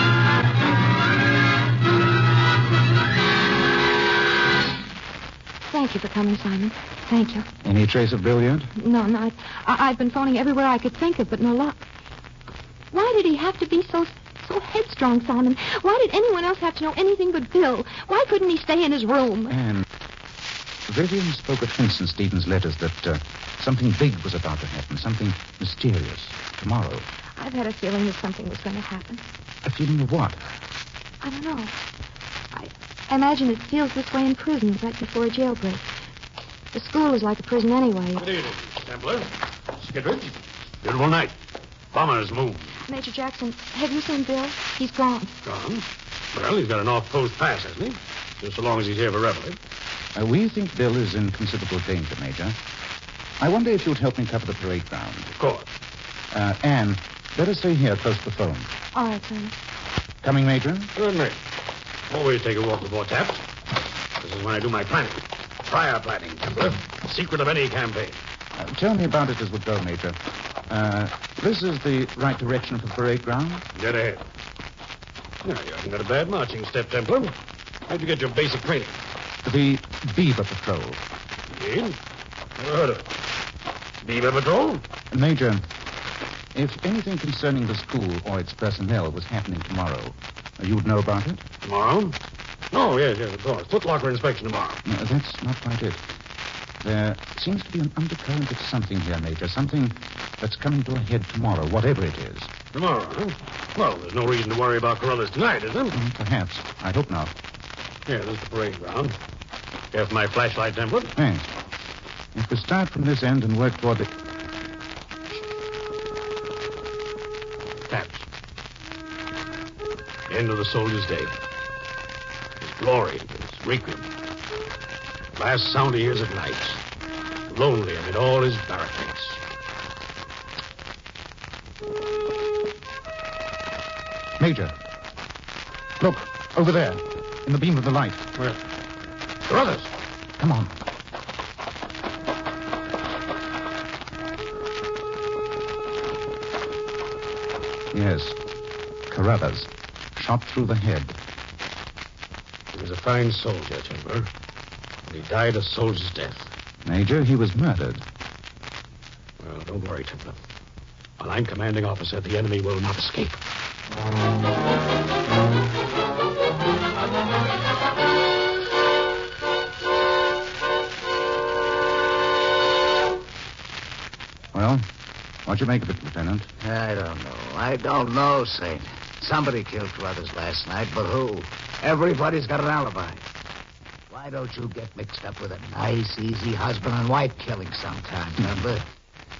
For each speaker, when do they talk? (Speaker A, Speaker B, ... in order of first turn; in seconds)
Speaker A: 5.7-7.5, 8.8-11.8, 12.9-19.6, 27.4-29.2, 31.2-31.8, 32.5-35.9, 36.7-38.3, 42.9-45.3, 58.9-59.5
Speaker B: 7.6-8.7, 19.5-19.9, 20.9-27.1, 29.6-30.4, 50.1-52.6, 53.4-55.3, 56.3-58.7, 60.2-60.9, 68.6-73.7, 79.4-81.0, 85.1-85.6, 86.5-91.4, 94.8-96.0, 96.8-102.5, 105.9-107.3, 111.2-111.5, 112.3-114.1, 134.4-134.7, 136.0-138.3, 140.4-140.8, 147.9-148.4, 149.1-151.2, 156.8-158.0, 174.5-174.9, 175.5-176.5
Speaker C: 38.2-41.4, 41.9-42.8, 45.4-49.6, 55.4-55.7, 61.0-61.4, 62.1-63.4, 64.2-68.2, 73.8-74.2, 75.4-77.3, 77.9-79.0, 81.5-82.0, 82.6-83.1, 84.0-84.8, 91.6-92.2, 92.7-94.8, 102.7-106.0, 108.1-109.2, 109.9-111.1, 117.9-118.2, 120.3-121.3, 122.6-124.1, 125.4-126.8, 127.5-129.4, 139.5-139.9, 152.7-154.3, 155.1-156.5, 159.4-160.4, 161.2-163.4
Speaker D: 176.6-183.2, 184.1-188.8